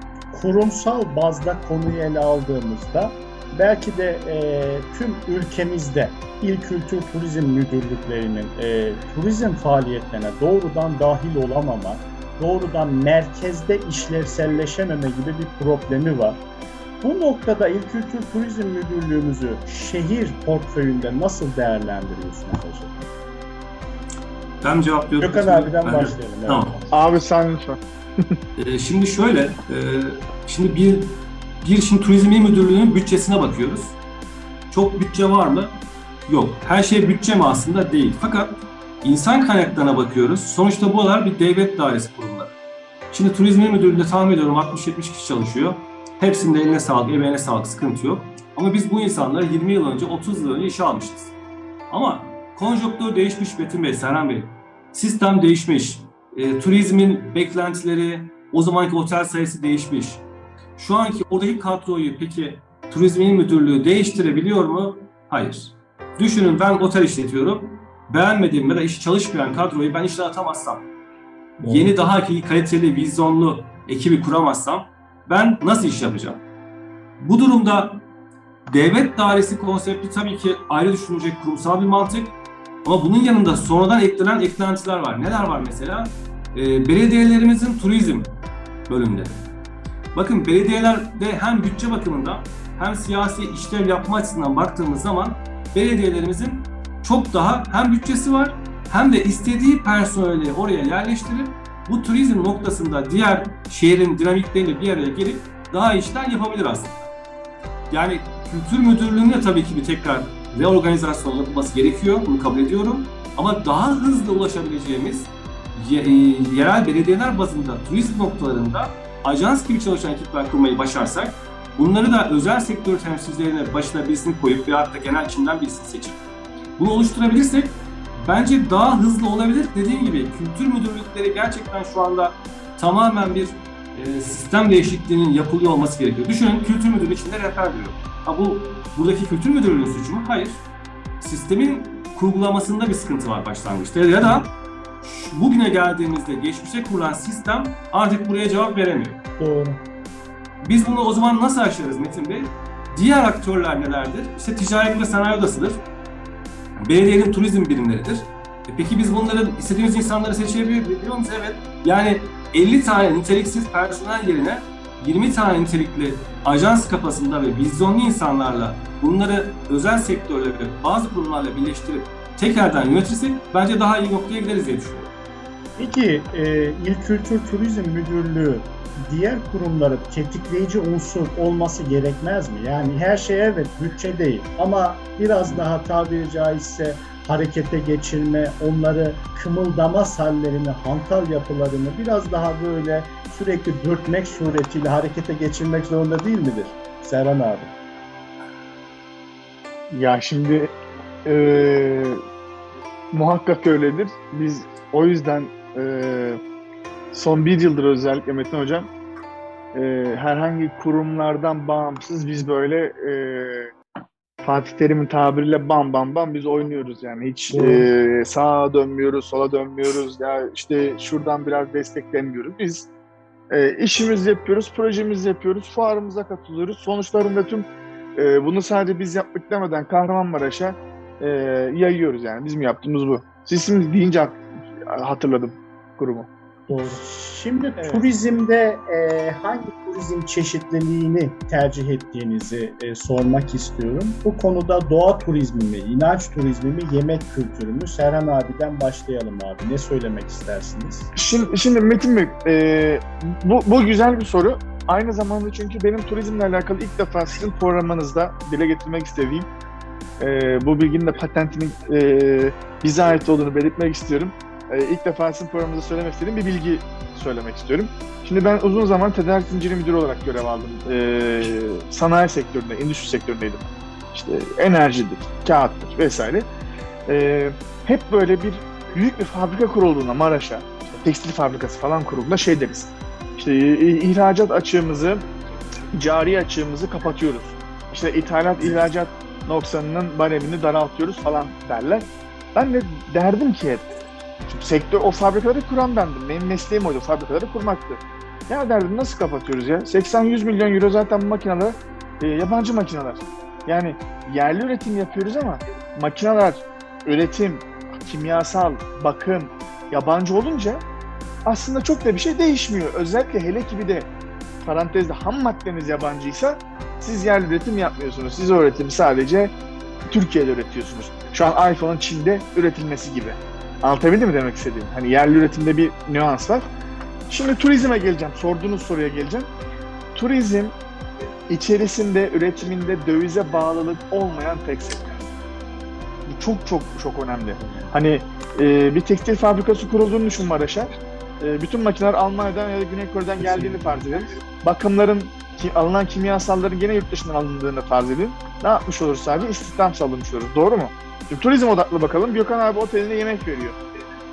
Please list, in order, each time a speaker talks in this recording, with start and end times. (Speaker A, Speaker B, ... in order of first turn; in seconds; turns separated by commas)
Speaker A: 0.3-16.4, Speaker A: 17.0-23.1, Speaker B: 24.6-26.8, Speaker A: 25.2-26.9, Speaker C: 26.9-27.8, Speaker B: 28.6-34.0, Speaker B: 34.7-35.7, Speaker B: 36.3-42.5, Speaker B: 43.1-51.3, Speaker B: 51.9-60.2, Speaker B: 60.8-70.9, Speaker A: 71.6-71.9, Speaker B: 71.6-76.4, Speaker B: 77.2-78.0, Speaker B: 78.7-88.4, Speaker B: 88.9-89.4, Speaker B: 90.2-107.1, Speaker B: 107.9-126.2, Speaker B: 126.8-140.6, Speaker B: 141.2-144.5, Speaker B: 145.0-149.2, Speaker A: 149.4-149.8, Speaker B: 150.6-155.8, Speaker B: 156.8-175.1, Speaker A: 175.8-197.8, Speaker C: 199.9-202.2, Speaker C: 203.1-206.4, Speaker C: 207.1-208.9, Speaker C: 209.7-213.7, Speaker C: 214.4-222.9, Speaker A: 217.5-217.9, Speaker C: 223.5-236.3, Speaker A: 236.7-251.1, Speaker C: 251.2-259.5, Speaker C: 260.2-276.5, Speaker C: 277.1-285.2, Speaker C: 285.9-293.9, Speaker C: 294.5-310.8, Speaker C: 311.4-314.1, Speaker C: 314.6-319.5, Speaker C: 320.1-326.7, Speaker C: 327.3-329.5, Speaker C: 330.1-330.8, Speaker C: 331.5-335.1, Speaker C: 336.3-353.8, Speaker A: 337.6-337.9